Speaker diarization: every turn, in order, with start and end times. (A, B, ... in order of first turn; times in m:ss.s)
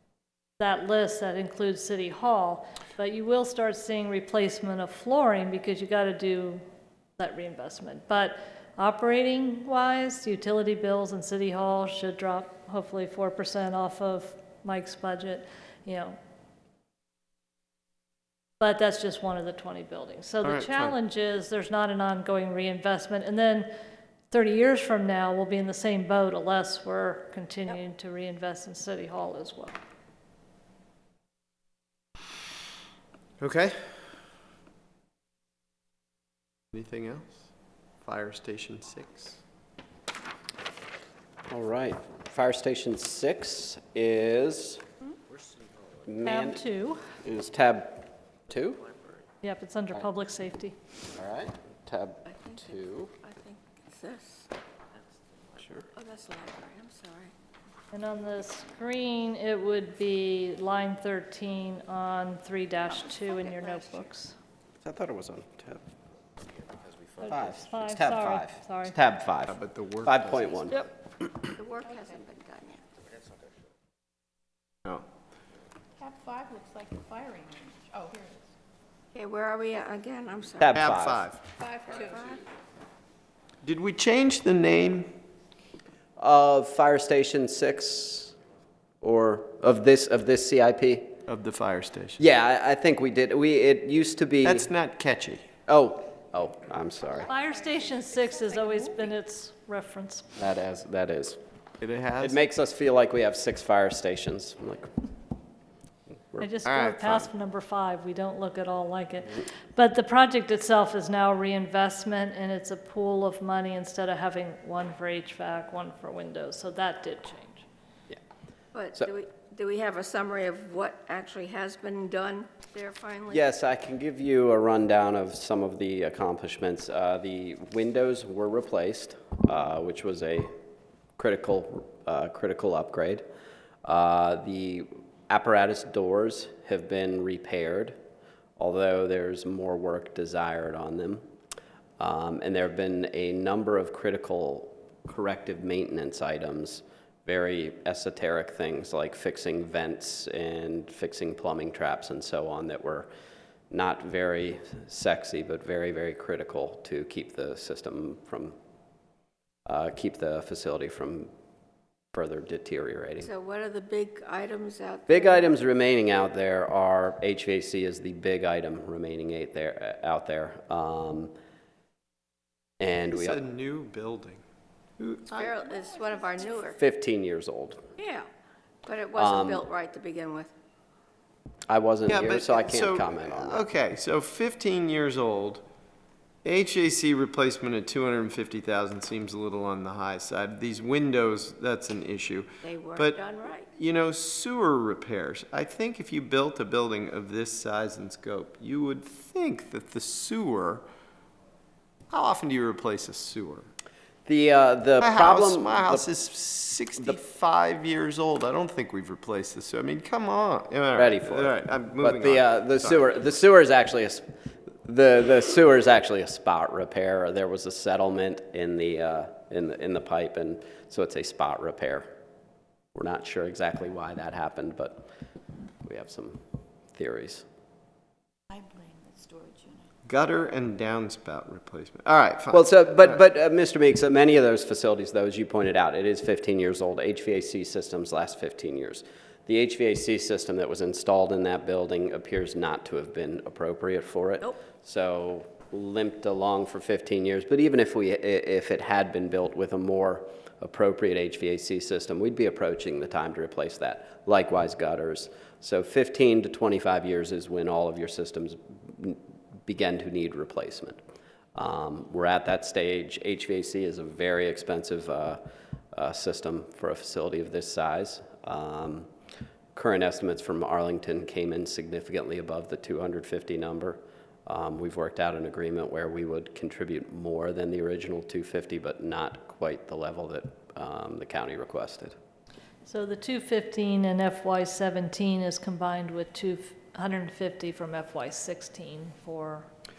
0:00.6-0:06.6 A
0:07.2-0:16.2 A
0:18.6-0:23.7 A
0:20.4-0:21.0 B
0:24.3-0:29.8 A
0:33.4-0:34.0 B
0:36.7-0:37.5 B
0:38.0-0:39.4 B
0:41.5-0:44.8 C
0:46.0-0:46.6 C
0:46.2-0:47.1 A
0:47.2-0:49.0 C
0:49.4-0:50.8 A
0:51.1-0:53.1 C
0:52.3-0:54.5 D
0:55.6-0:55.9 C
0:56.0-0:57.3 D
0:57.9-1:04.4 A
1:03.3-1:04.0 D
1:04.8-1:05.8 C
1:06.8-1:11.5 C
1:07.2-1:09.0 A
1:09.5-1:10.3 B
1:11.6-1:12.8 D
1:16.0-1:18.5 E
1:19.1-1:20.8 D
1:20.6-1:21.2 C
1:20.7-1:21.4 B
1:21.6-1:22.4 E
1:21.8-1:22.4 D
1:23.6-1:25.1 B
1:26.2-1:28.4 C
1:29.0-1:31.1 C
1:31.3-1:32.2 B
1:32.2-1:34.7 C
1:34.4-1:35.5 B
1:35.7-1:37.3 C
1:37.2-1:40.3 A
1:37.4-1:38.8 E
1:40.4-1:41.4 C
1:41.8-1:42.4 B
1:42.2-1:44.9 C
1:46.4-1:57.7 A
1:46.6-1:47.3 B
1:58.7-2:03.4 D
2:03.3-2:10.5 C
2:11.2-2:13.2 C
2:13.8-2:18.0 C
2:18.6-2:21.2 C
2:22.0-2:33.1 C
2:33.7-2:38.6 C
2:39.7-2:41.3 C
2:42.1-2:43.3 C
2:43.2-2:45.6 D
2:45.1-2:51.3 C
2:52.8-2:53.4 C
2:53.1-2:54.4 B
2:55.0-2:55.3 B
2:55.3-2:56.6 E
2:55.3-2:56.8 D
2:56.7-2:57.8 C
2:58.0-2:58.3 D
2:58.8-3:00.5 D
2:59.2-2:59.6 C
3:01.7-3:03.7 C
3:02.1-3:05.6 B
3:06.4-3:13.2 B
3:12.6-3:13.7 D
3:13.8-3:20.8 B
3:22.1-3:23.7 B
3:24.3-3:26.1 C
3:25.0-3:33.0 B
3:31.0-3:34.2 C
3:34.8-3:42.1 C
3:42.9-3:45.1 C
3:45.8-3:46.4 C
3:46.9-3:47.4 C
3:48.5-3:49.9 E
3:50.1-3:53.2 B
3:52.5-4:21.0 C
4:21.6-4:25.4 C
4:25.9-4:29.1 C
4:29.7-4:42.2 C
4:42.8-4:49.7 A